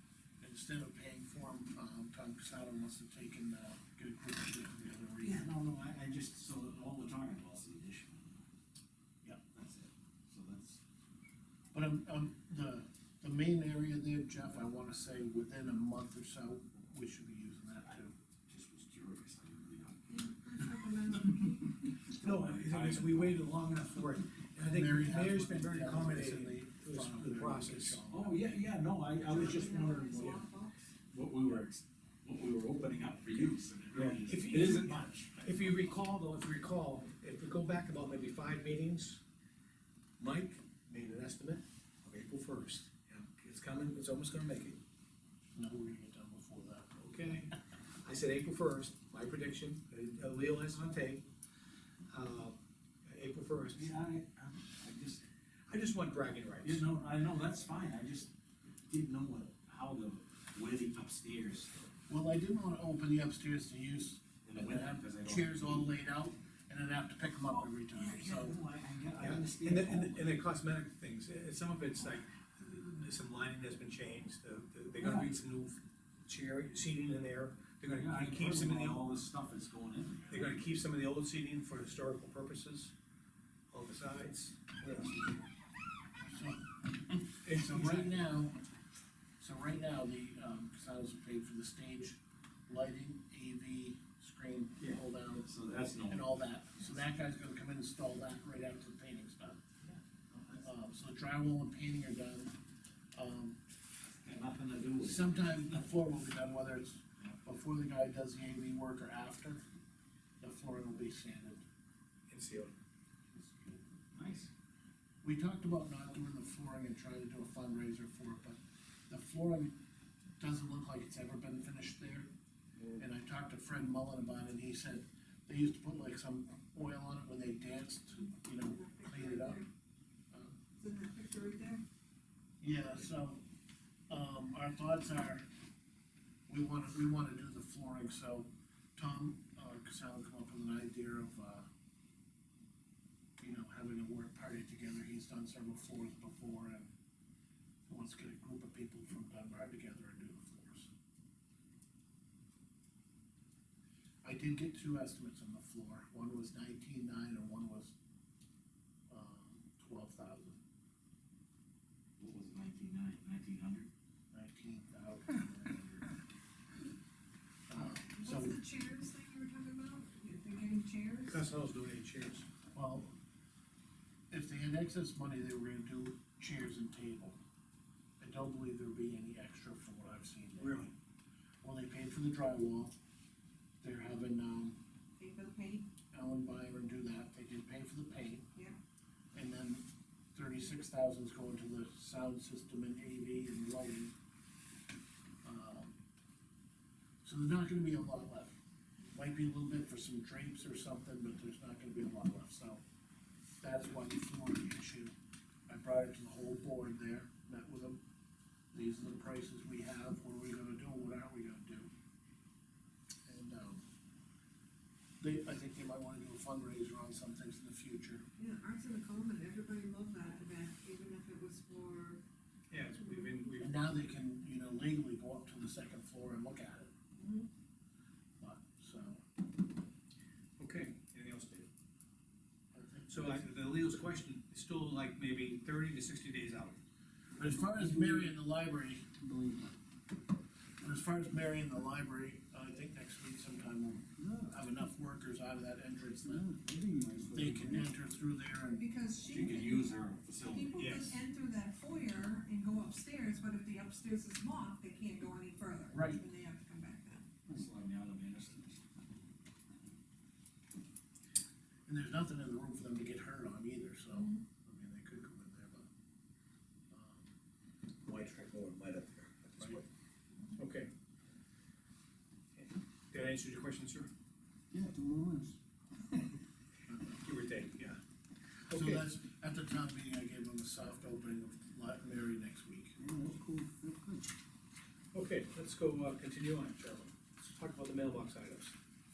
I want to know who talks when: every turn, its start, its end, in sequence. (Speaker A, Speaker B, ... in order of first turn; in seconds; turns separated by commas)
Speaker A: 0.4-5.4, Speaker B: 5.2-8.5, Speaker B: 9.4-10.8, Speaker A: 11.7-18.1, Speaker B: 18.5-21.5, Speaker C: 20.1-21.8, Speaker B: 22.1-23.5, Speaker D: 22.1-28.0, Speaker A: 24.6-28.5, Speaker B: 28.1-30.4, Speaker C: 29.2-30.9, Speaker D: 29.3-30.4, Speaker B: 31.1-35.7, Speaker D: 33.9-39.2, Speaker D: 40.2-44.8, Speaker A: 45.5-47.0, Speaker D: 47.0-47.5, Speaker D: 48.0-51.3, Speaker D: 52.1-53.9, Speaker B: 53.7-55.2, Speaker D: 55.7-56.9, Speaker B: 56.6-58.3, Speaker B: 58.9-61.9, Speaker A: 62.1-68.6, Speaker B: 64.4-65.8, Speaker B: 67.5-70.4, Speaker D: 69.2-79.1, Speaker B: 74.9-75.3, Speaker B: 77.9-80.7, Speaker D: 80.3-82.9, Speaker D: 83.7-85.5, Speaker A: 86.2-88.6, Speaker D: 87.4-88.2, Speaker A: 89.4-99.6, Speaker B: 95.4-96.9, Speaker B: 99.8-100.6, Speaker A: 100.5-102.5, Speaker A: 103.1-103.6, Speaker B: 104.0-105.9, Speaker A: 105.0-109.6, Speaker A: 110.4-111.6, Speaker D: 112.3-112.7, Speaker B: 113.3-114.5, Speaker A: 115.2-119.8, Speaker A: 120.4-122.3, Speaker A: 123.0-129.6, Speaker C: 128.6-129.7, Speaker C: 130.7-131.8, Speaker A: 132.6-133.4, Speaker A: 134.1-135.5, Speaker A: 136.5-141.7, Speaker A: 143.4-146.9, Speaker A: 147.9-150.9, Speaker A: 154.2-157.9, Speaker A: 159.1-160.6, Speaker B: 162.2-163.9, Speaker A: 164.3-166.1, Speaker A: 167.7-168.6, Speaker C: 167.8-171.5, Speaker D: 171.3-172.4, Speaker A: 172.7-173.1, Speaker A: 174.3-177.4, Speaker A: 178.2-180.9, Speaker D: 180.6-180.9, Speaker A: 181.6-182.9, Speaker A: 183.8-184.8, Speaker C: 185.2-185.9, Speaker A: 186.1-188.5, Speaker A: 189.3-194.1, Speaker A: 195.4-195.9, Speaker A: 197.2-198.6, Speaker A: 199.1-202.8, Speaker A: 203.6-205.1, Speaker A: 205.7-208.0, Speaker A: 208.7-211.9, Speaker A: 213.2-213.8, Speaker A: 215.2-218.3, Speaker C: 218.4-222.2, Speaker D: 222.7-223.7, Speaker C: 223.0-223.4, Speaker A: 223.6-226.9, Speaker C: 227.2-227.5, Speaker A: 228.4-229.2, Speaker D: 230.6-231.7, Speaker A: 232.7-233.5, Speaker D: 233.1-236.8, Speaker A: 237.3-239.1, Speaker B: 237.8-238.1, Speaker B: 239.2-239.6, Speaker A: 240.8-246.5, Speaker B: 244.2-244.5, Speaker B: 246.4-247.9, Speaker A: 247.3-248.8, Speaker C: 248.7-249.9, Speaker B: 249.3-250.9, Speaker C: 250.5-257.3, Speaker D: 250.8-251.1, Speaker A: 255.9-256.2, Speaker B: 257.5-258.8, Speaker A: 261.9-265.9, Speaker C: 264.1-264.4, Speaker A: 266.9-267.3, Speaker D: 268.0-269.8, Speaker A: 269.6-269.8, Speaker D: 270.6-270.9, Speaker D: 272.6-274.1, Speaker B: 274.7-275.5, Speaker A: 276.9-277.2, Speaker D: 277.1-278.0, Speaker D: 278.7-279.1, Speaker A: 278.7-283.0, Speaker B: 283.1-284.1, Speaker D: 285.1-288.7